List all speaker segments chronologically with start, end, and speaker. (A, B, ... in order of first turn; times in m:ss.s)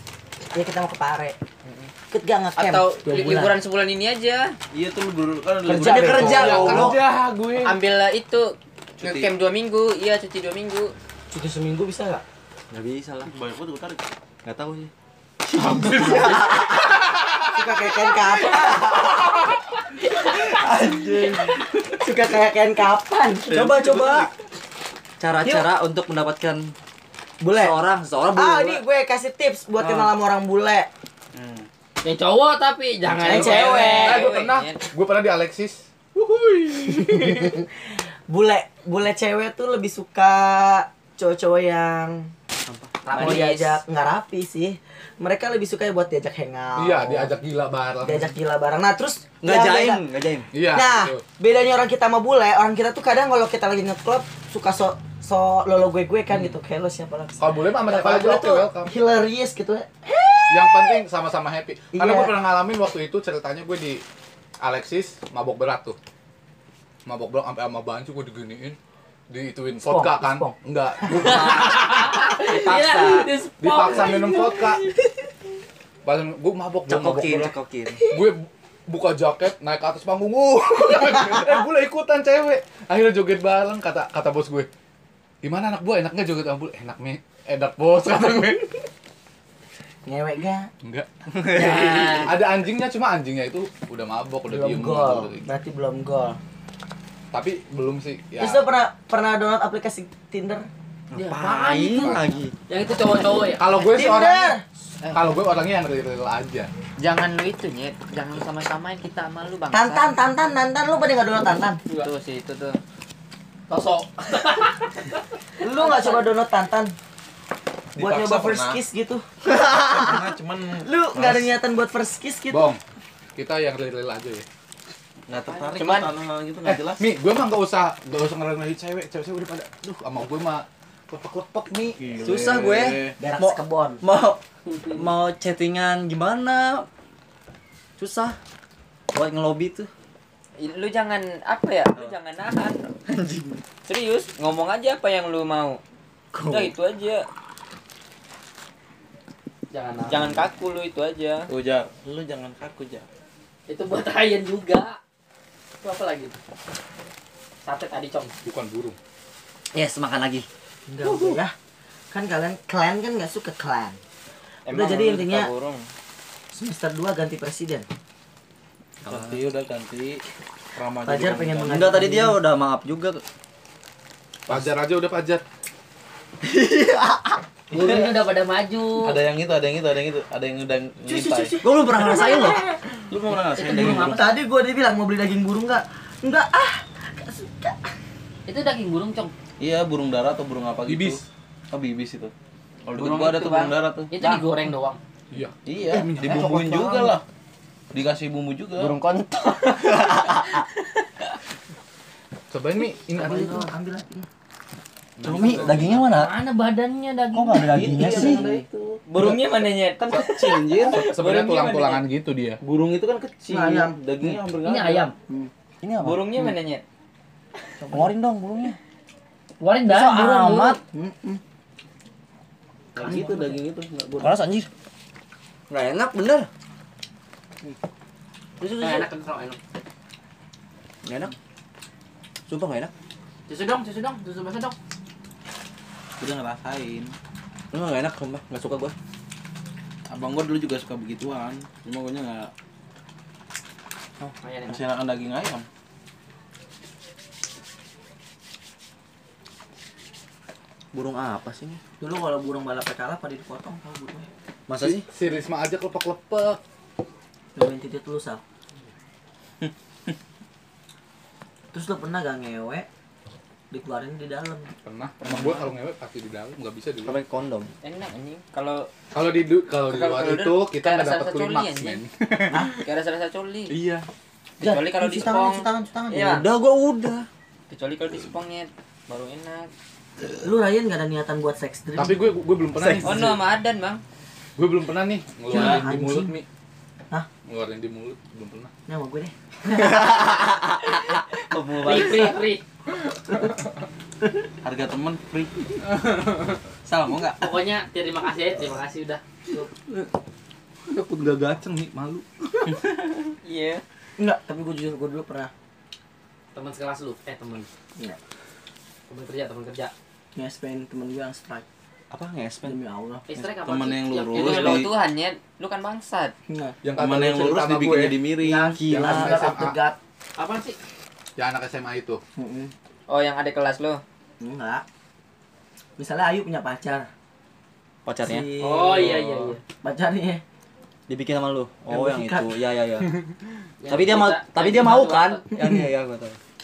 0:00.5-0:01.4 A
0:01.6-0:01.9 B
0:02.1-0:03.5 A
0:02.6-0:04.6 B
0:04.7-0:07.0 C
0:05.7-0:07.0 A
0:05.8-0:07.8 D
0:07.6-0:10.9 B
0:09.0-0:09.3 C
0:11.3-0:12.2 A
0:12.7-0:13.3 E
0:13.3-0:14.0 C
0:14.4-0:14.9 E
0:15.5-0:16.9 E
0:15.6-0:16.9 A
0:17.5-0:19.2 A
0:20.6-0:21.5 E
0:20.9-0:21.3 C
0:21.9-0:24.2 A
0:23.5-0:24.2 C
0:23.5-0:24.3 E
0:25.2-0:26.7 E
0:25.4-0:25.7 A
0:27.4-0:27.8 A
0:27.5-0:28.8 E
0:28.3-0:30.9 A
0:31.3-0:31.7 C
0:32.0-0:34.3 F
0:33.1-0:34.2 A
0:33.2-0:37.5 D
0:33.3-0:34.8 B
0:36.8-0:42.3 A
0:42.6-0:42.9 E
0:43.1-0:43.8 B
0:43.1-0:43.5 F
0:43.1-0:47.3 A
0:46.8-0:48.3 D
0:48.0-0:50.0 A
0:49.4-0:50.5 E
0:50.5-0:51.2 D
0:50.7-1:01.0 A
0:57.4-0:59.0 D
1:00.5-1:04.0 D
1:01.9-1:02.3 A
1:04.6-1:06.0 D
1:07.0-1:08.8 D
1:09.3-1:12.1 D
1:09.8-1:10.5 A
1:11.1-1:14.9 F
1:11.5-1:13.3 B
1:13.6-1:14.9 D
1:16.0-1:24.7 D
1:16.9-1:18.0 E
1:25.4-1:28.8 D
1:30.0-1:30.7 A
1:30.8-1:35.5 D
1:31.6-1:32.3 A
1:31.7-1:32.0 E
1:34.5-1:36.4 A
1:37.3-1:38.6 D
1:38.4-1:40.7 A
1:41.1-1:42.5 E
1:41.1-1:43.7 F
1:41.9-1:42.2 D
1:43.5-1:44.6 D
1:43.8-1:44.6 A
1:45.1-1:46.7 D
1:47.0-1:50.1 B
1:49.7-1:51.8 A
1:51.9-1:52.8 B
1:53.7-1:55.2 F
1:55.6-1:56.9 A
1:55.8-1:56.2 F
1:57.9-1:58.8 C
1:58.0-2:02.7 A
1:59.5-2:01.5 C
2:02.5-2:02.8 D
2:03.4-2:04.4 D
2:05.3-2:07.1 C
2:05.8-2:06.1 B
2:06.6-2:12.0 D
2:12.0-2:13.2 C
2:12.2-2:16.9 E
2:13.2-2:14.0 A
2:18.0-2:18.4 E
2:19.1-2:19.9 E
2:20.6-2:22.9 B
2:23.0-2:23.6 E
2:23.8-2:25.8 B
2:26.3-2:26.7 E
2:26.5-2:27.3 B
2:29.7-2:30.4 F
2:30.1-2:31.5 B
2:31.5-2:33.1 C
2:33.7-2:35.0 F
2:35.8-2:36.4 F
2:37.6-2:38.3 F
2:38.4-2:39.0 D
2:39.7-2:40.5 E
2:40.9-2:41.5 A
2:42.1-2:44.0 A
2:44.6-2:45.9 B
2:44.7-2:45.5 A
2:46.5-2:47.9 A
2:49.0-2:49.4 E
2:49.0-2:50.2 C
2:50.7-2:51.9 C
2:51.0-2:52.4 A
2:51.6-2:53.2 E
2:54.5-2:55.4 D
2:56.4-2:57.3 E
2:57.7-2:59.2 F
2:57.7-2:58.1 C
2:59.0-3:01.6 C
3:01.0-3:02.7 A
3:01.6-3:02.6 E
3:03.1-3:04.3 C
3:03.5-3:04.3 F
3:03.8-3:07.9 A
3:08.5-3:09.3 F
3:09.6-3:12.3 C
3:10.9-3:11.2 D
3:12.8-3:14.2 C
3:12.9-3:13.7 B
3:14.1-3:15.0 F
3:15.3-3:17.1 D
3:15.6-3:17.2 C
3:17.9-3:19.0 C
3:18.8-3:20.6 B
3:19.8-3:20.6 E
3:22.5-3:23.7 D
3:23.2-3:24.3 A
3:25.2-3:26.0 D
3:25.2-3:26.3 E
3:25.4-3:25.8 C
3:26.0-3:27.9 F
3:27.3-3:28.4 E
3:27.7-3:29.4 C
3:27.8-3:28.6 A
3:29.1-3:32.0 B
3:30.0-3:31.2 C
3:30.9-3:32.6 D
3:32.6-3:35.1 C
3:33.5-3:34.0 A
3:34.6-3:35.1 F
3:35.8-3:36.5 E
3:36.0-3:36.8 B
3:37.8-3:38.1 A
3:37.9-3:38.8 E
3:39.6-3:40.8 F
3:39.9-3:40.8 E
3:40.9-3:41.4 A
3:43.0-3:44.4 C
3:44.2-3:44.7 E
3:45.7-3:46.5 E
3:48.6-3:49.1 E
3:48.7-3:49.6 F
3:51.0-3:51.3 E
3:52.5-3:52.9 E
3:53.5-3:54.7 F
3:56.2-3:57.1 C
3:57.7-3:58.9 E
4:00.1-4:02.5 C
4:04.4-4:04.8 F
4:04.6-4:05.7 C
4:10.9-4:11.8 E
4:12.0-4:14.3 A
4:14.7-4:15.1 E
4:14.8-4:16.6 D
4:17.6-4:18.4 A
4:21.7-4:22.9 A
4:23.7-4:24.7 A
4:24.8-4:27.2 D
4:27.0-4:27.7 E
4:27.8-4:28.9 B
4:29.1-4:32.8 D
4:29.8-4:32.0 B
4:32.5-4:32.7 A
4:32.7-4:33.7 B
4:34.6-4:36.4 A
4:34.6-4:36.5 B
4:36.2-4:37.3 E
4:37.7-4:39.7 B
4:40.4-4:42.2 A
4:42.0-4:43.4 D
4:43.0-4:44.0 B
4:44.6-4:46.4 D
4:45.5-4:46.3 A
4:47.4-4:48.7 D
4:48.9-4:50.2 A
4:49.7-4:52.4 E
4:51.8-4:52.6 F
4:54.6-4:57.6 C
4:57.4-4:59.2 F
5:03.4-5:03.8 B
5:04.2-5:05.5 A
5:06.5-5:07.7 F
5:09.1-5:09.9 F
5:10.3-5:11.6 A
5:12.1-5:12.8 E
5:12.6-5:13.2 A
5:13.3-5:14.9 F
5:13.6-5:14.9 C
5:14.3-5:16.3 B
5:16.5-5:16.8 A
5:16.8-5:18.2 D
5:17.0-5:18.8 C
5:18.4-5:20.0 A
5:18.8-5:19.4 E
5:18.8-5:19.8 D
5:20.4-5:20.8 F
5:21.4-5:22.2 D
5:22.4-5:22.7 A
5:23.1-5:24.0 B
5:24.4-5:24.8 A
5:26.0-5:27.1 A
5:28.0-5:28.5 E
5:28.2-5:29.2 A
5:28.6-5:29.6 F
5:29.8-5:30.4 A
5:31.1-5:33.2 E
5:31.9-5:32.6 A
5:33.8-5:35.4 F
5:33.8-5:36.4 E
5:35.5-5:35.9 A